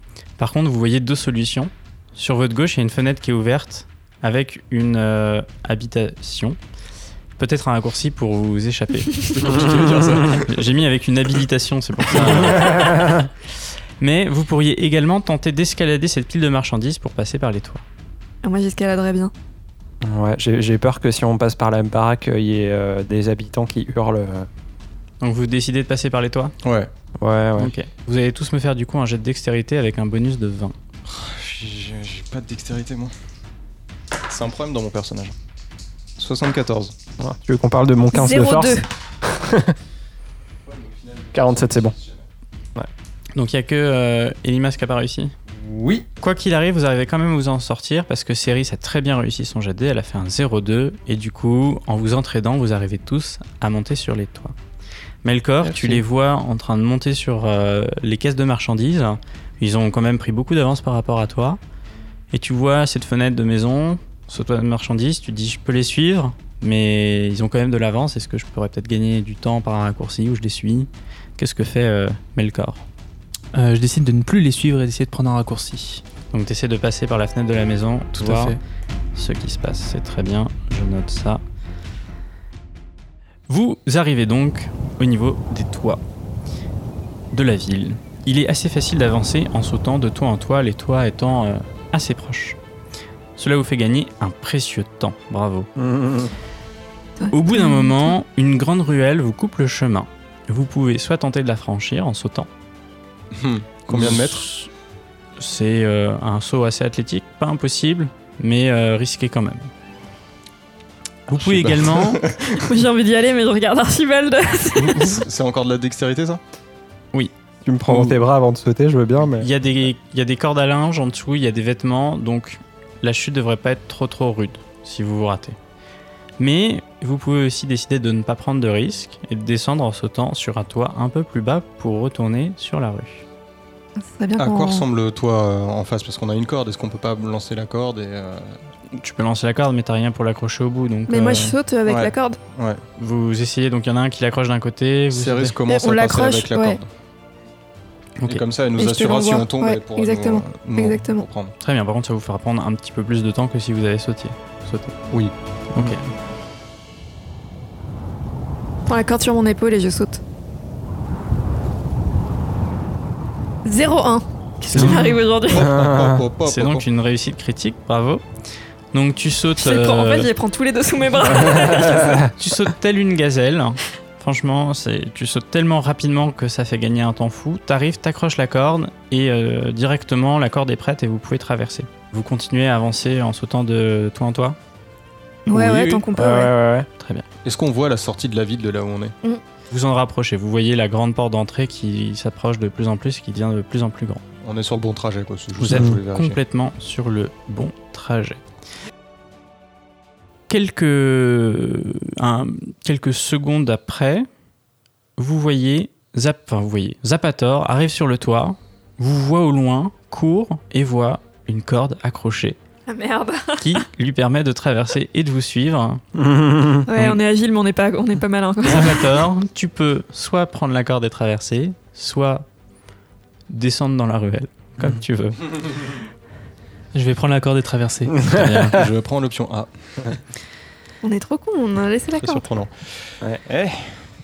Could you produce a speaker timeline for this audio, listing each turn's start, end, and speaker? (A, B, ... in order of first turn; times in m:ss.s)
0:00.4-0:06.6 A
0:07.4-0:13.3 A
0:09.3-0:10.6 B
0:12.6-0:13.1 C
0:14.0-0:17.8 A
0:18.4-0:19.3 D
0:20.0-0:24.5 C
0:25.2-0:26.5 A
0:26.6-0:26.9 B
0:27.2-0:27.7 C
0:27.6-0:30.8 A
0:31.1-0:33.1 B
0:34.3-0:35.3 B
0:36.2-0:36.9 B
0:37.2-0:39.8 C
0:38.1-0:38.8 D
0:40.7-0:42.2 B
0:41.3-0:41.9 C
0:43.4-0:45.3 A
0:45.6-0:46.0 C
0:46.2-0:54.5 A
0:55.2-1:01.6 A
0:55.6-0:56.0 B
1:02.3-1:12.8 A
1:13.5-1:16.0 E
1:16.3-1:18.6 A
1:18.2-1:18.6 E
1:19.1-1:21.4 A
1:23.5-1:26.0 A
1:27.3-1:32.6 A
1:33.4-1:35.7 A
1:35.8-1:36.3 C
1:37.2-1:38.1 D
1:37.3-1:42.5 A
1:43.3-1:44.5 B
1:43.9-1:44.7 A
1:45.4-1:49.7 A
1:51.3-1:52.3 A
1:51.3-1:52.6 B
1:52.5-1:55.2 D
1:54.8-1:56.4 B
1:57.6-1:59.5 C
1:57.9-1:58.2 A
1:59.4-2:05.6 A
2:06.4-2:13.2 A
2:14.0-2:14.8 D
2:14.4-2:18.6 B
2:18.9-2:21.6 A
2:21.1-2:22.4 D
2:21.8-2:22.8 B
2:23.0-2:25.6 A
2:25.1-2:26.9 B
2:25.7-2:26.8 D
2:28.2-2:31.5 B
2:28.8-2:31.3 D
2:31.6-2:35.0 A
2:35.7-2:36.1 A
2:38.8-2:40.2 D
2:43.6-2:45.7 D
2:44.7-2:45.2 A
2:44.7-2:46.8 B
2:45.6-2:46.2 C
2:46.4-2:48.2 A
2:48.9-2:50.3 A
2:49.6-2:52.3 D
2:52.3-3:04.6 A
3:05.5-3:06.5 D
3:05.5-3:06.0 B
3:06.1-3:06.9 C
3:07.0-3:07.2 A
3:07.4-3:09.1 B
3:09.7-3:14.2 A
3:14.4-3:16.4 B
3:15.6-3:18.4 A
3:15.7-3:16.0 C
3:20.5-3:24.3 A
3:25.2-3:32.6 A
3:32.9-3:33.8 D
3:33.6-3:36.0 A
3:36.1-3:36.8 C
3:36.8-3:39.2 D
3:36.9-3:37.2 A
3:38.6-3:42.4 A
3:43.5-3:45.7 A
3:46.9-3:48.2 E
3:48.3-3:48.8 A
3:48.4-3:49.7 B
3:51.0-3:52.4 D
3:52.2-3:53.9 B